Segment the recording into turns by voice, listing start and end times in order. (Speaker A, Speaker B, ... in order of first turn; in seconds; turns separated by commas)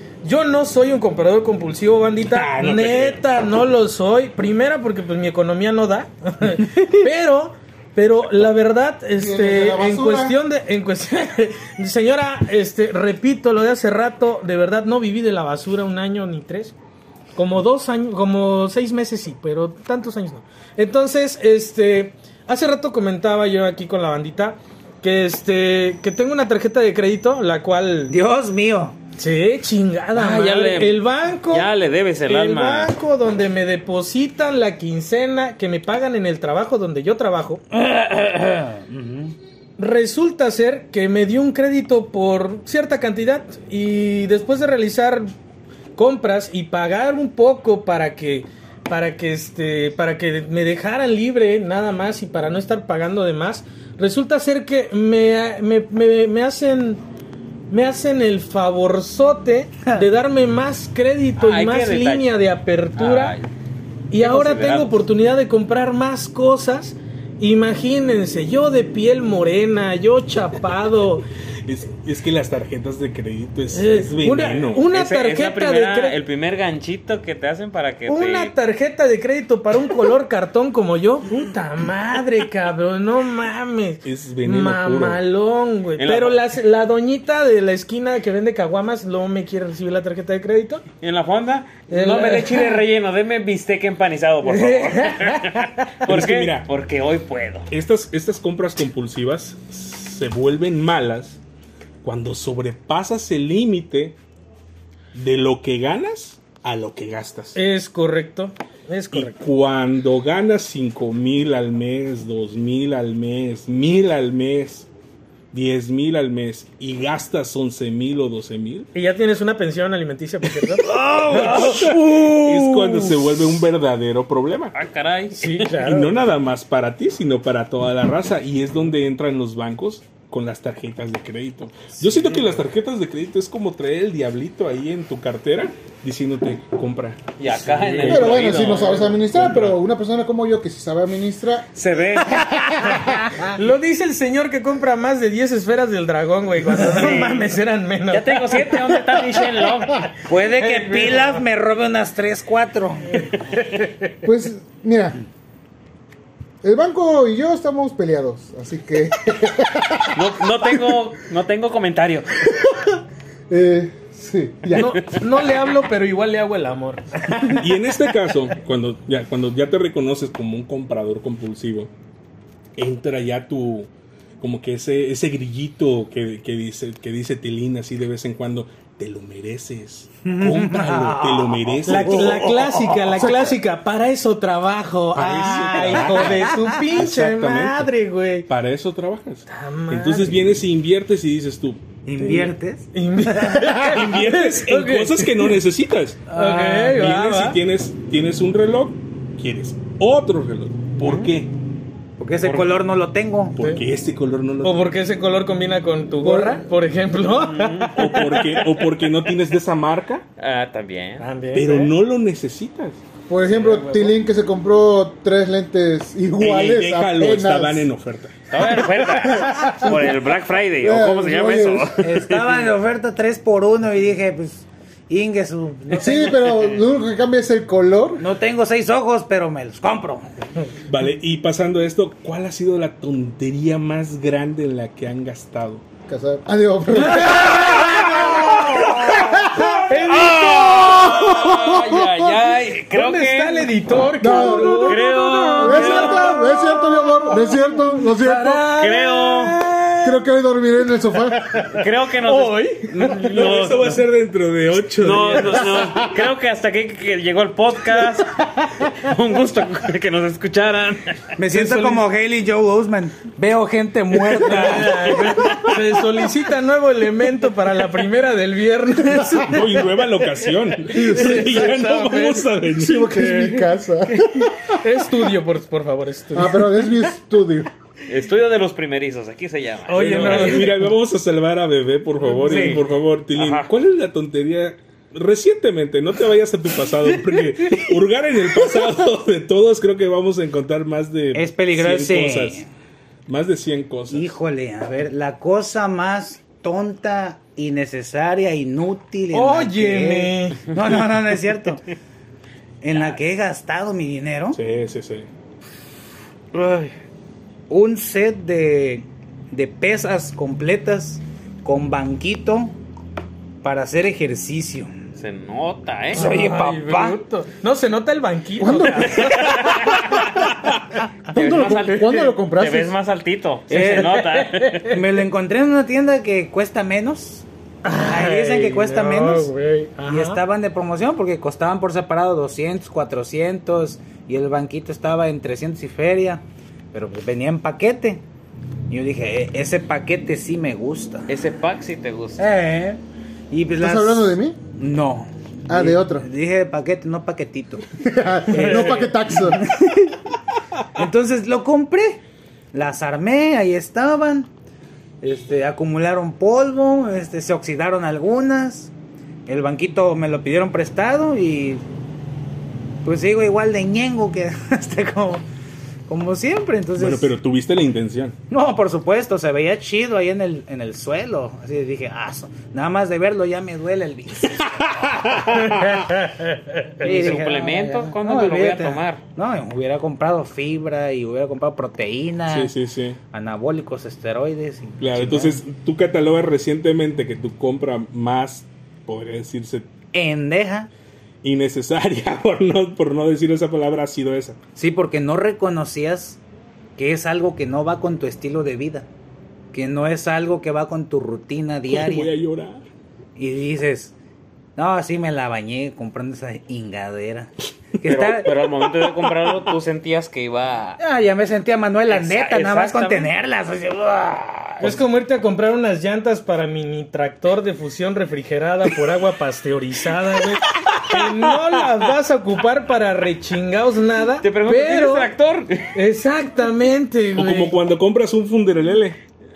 Speaker A: 0.2-16.7, Speaker B: 2.2-3.2, Speaker C: 9.2-10.4, Speaker A: 17.3-28.2, Speaker D: 28.1-29.0, Speaker A: 29.2-31.7, Speaker E: 30.1-32.9, Speaker A: 32.2-37.6, Speaker D: 37.7-39.4, Speaker A: 39.8-45.3, Speaker A: 46.0-57.0, Speaker A: 57.7-63.4, Speaker E: 61.4-62.3, Speaker E: 63.0-63.5, Speaker A: 64.1-71.2, Speaker E: 64.1-65.0, Speaker B: 71.6-74.9, Speaker A: 73.7-76.2, Speaker E: 74.9-78.5, Speaker A: 78.1-90.8, Speaker B: 84.0-85.2, Speaker E: 86.0-86.5, Speaker E: 91.0-97.7, Speaker A: 91.9-92.8, Speaker A: 94.4-95.9, Speaker B: 96.1-96.7, Speaker B: 97.7-101.4, Speaker B: 102.0-104.2, Speaker B: 105.1-107.6, Speaker A: 107.5-109.3, Speaker B: 109.1-114.9, Speaker B: 115.5-118.9, Speaker A: 118.9-122.1, Speaker D: 120.9-121.3, Speaker B: 121.3-124.7, Speaker D: 122.1-122.9, Speaker E: 124.7-125.7, Speaker A: 125.3-126.2, Speaker B: 125.8-139.7, Speaker E: 137.4-139.1, Speaker C: 138.0-141.8, Speaker E: 141.7-142.7, Speaker C: 142.5-143.0, Speaker A: 143.4-149.2, Speaker E: 146.7-147.5, Speaker E: 148.1-150.2, Speaker D: 150.2-153.3, Speaker A: 150.5-151.4, Speaker C: 154.2-155.2, Speaker C: 156.6-160.4, Speaker E: 160.1-162.5, Speaker C: 162.5-162.8, Speaker C: 163.5-165.1, Speaker A: 164.7-167.7, Speaker B: 167.4-171.9, Speaker B: 172.8-173.9, Speaker B: 174.4-182.5, Speaker D: 180.2-182.7, Speaker A: 181.8-188.5, Speaker B: 185.1-187.9, Speaker D: 185.3-186.8, Speaker B: 188.5-191.8, Speaker A: 189.5-190.4, Speaker D: 192.0-193.9, Speaker A: 192.2-195.6, Speaker B: 193.8-196.3, Speaker A: 196.3-197.6, Speaker D: 196.3-196.9, Speaker B: 196.8-201.5, Speaker D: 202.2-203.6, Speaker E: 202.4-202.8, Speaker B: 203.6-204.9, Speaker A: 204.6-208.7, Speaker C: 206.2-206.6, Speaker E: 207.2-208.2, Speaker B: 207.9-210.2, Speaker E: 210.4-211.2, Speaker A: 211.2-211.9, Speaker B: 211.5-213.0, Speaker C: 213.3-217.9, Speaker A: 213.5-214.1, Speaker B: 216.4-218.3, Speaker E: 218.5-222.7, Speaker C: 219.2-220.1, Speaker C: 220.8-221.9, Speaker D: 222.0-226.3, Speaker E: 225.9-226.8, Speaker C: 226.0-228.2, Speaker D: 228.2-230.3, Speaker B: 230.9-235.8, Speaker C: 236.1-239.8, Speaker E: 238.8-239.3, Speaker A: 239.8-240.9, Speaker E: 240.1-243.7, Speaker C: 240.4-242.3, Speaker A: 242.9-250.2, Speaker C: 244.2-248.7, Speaker E: 244.4-246.3, Speaker E: 248.8-249.6, Speaker C: 250.0-251.6, Speaker A: 251.3-253.4, Speaker E: 251.7-254.1, Speaker B: 253.1-255.9, Speaker E: 255.0-261.3, Speaker D: 261.4-265.5, Speaker A: 261.5-262.0, Speaker A: 264.3-269.9, Speaker B: 269.4-273.7, Speaker A: 270.9-272.5, Speaker C: 270.9-271.8, Speaker C: 272.8-274.7, Speaker A: 274.8-276.7, Speaker C: 276.3-277.7, Speaker E: 278.1-280.7, Speaker A: 279.9-280.8, Speaker B: 279.9-292.6, Speaker D: 282.4-282.9, Speaker E: 283.3-283.7, Speaker D: 291.3-292.7, Speaker B: 293.3-294.3, Speaker D: 294.1-301.9, Speaker A: 299.3-300.7, Speaker D: 302.8-304.6, Speaker B: 304.5-305.3, Speaker D: 306.6-306.9, Speaker D: 307.7-312.7, Speaker D: 313.6-314.9, Speaker E: 315.2-316.3, Speaker D: 316.1-317.2, Speaker A: 316.1-320.0, Speaker C: 318.6-319.8, Speaker E: 319.2-320.3, Speaker C: 321.3-322.9, Speaker E: 321.3-325.0, Speaker D: 323.7-327.4, Speaker A: 324.3-324.9, Speaker A: 327.8-330.4, Speaker D: 328.0-329.5, Speaker D: 330.1-338.2, Speaker D: 338.9-341.3, Speaker E: 341.3-342.4, Speaker D: 342.4-347.9, Speaker C: 343.8-344.6, Speaker C: 345.7-346.2, Speaker C: 348.0-349.6, Speaker D: 348.5-350.2, Speaker D: 350.9-354.5, Speaker D: 355.2-358.9, Speaker D: 359.4-361.8, Speaker D: 363.0-365.4, Speaker D: 366.1-367.3, Speaker B: 366.9-368.4, Speaker D: 368.5-375.6, Speaker B: 375.2-375.9, Speaker A: 375.7-377.1, Speaker E: 377.0-379.2, Speaker D: 377.0-382.7, Speaker B: 382.5-383.2, Speaker D: 383.3-385.6, Speaker B: 385.0-389.9, Speaker D: 390.1-390.9, Speaker B: 391.4-394.6, Speaker D: 394.8-396.4, Speaker D: 396.9-399.1, Speaker D: 399.7-402.3, Speaker B: 401.9-402.8, Speaker D: 403.4-404.1, Speaker D: 404.8-408.5, Speaker E: 408.0-411.0, Speaker D: 411.0-415.0, Speaker E: 412.1-413.3, Speaker A: 414.8-425.3, Speaker B: 420.9-422.1, Speaker E: 424.4-425.9, Speaker A: 425.9-427.8, Speaker B: 427.3-429.2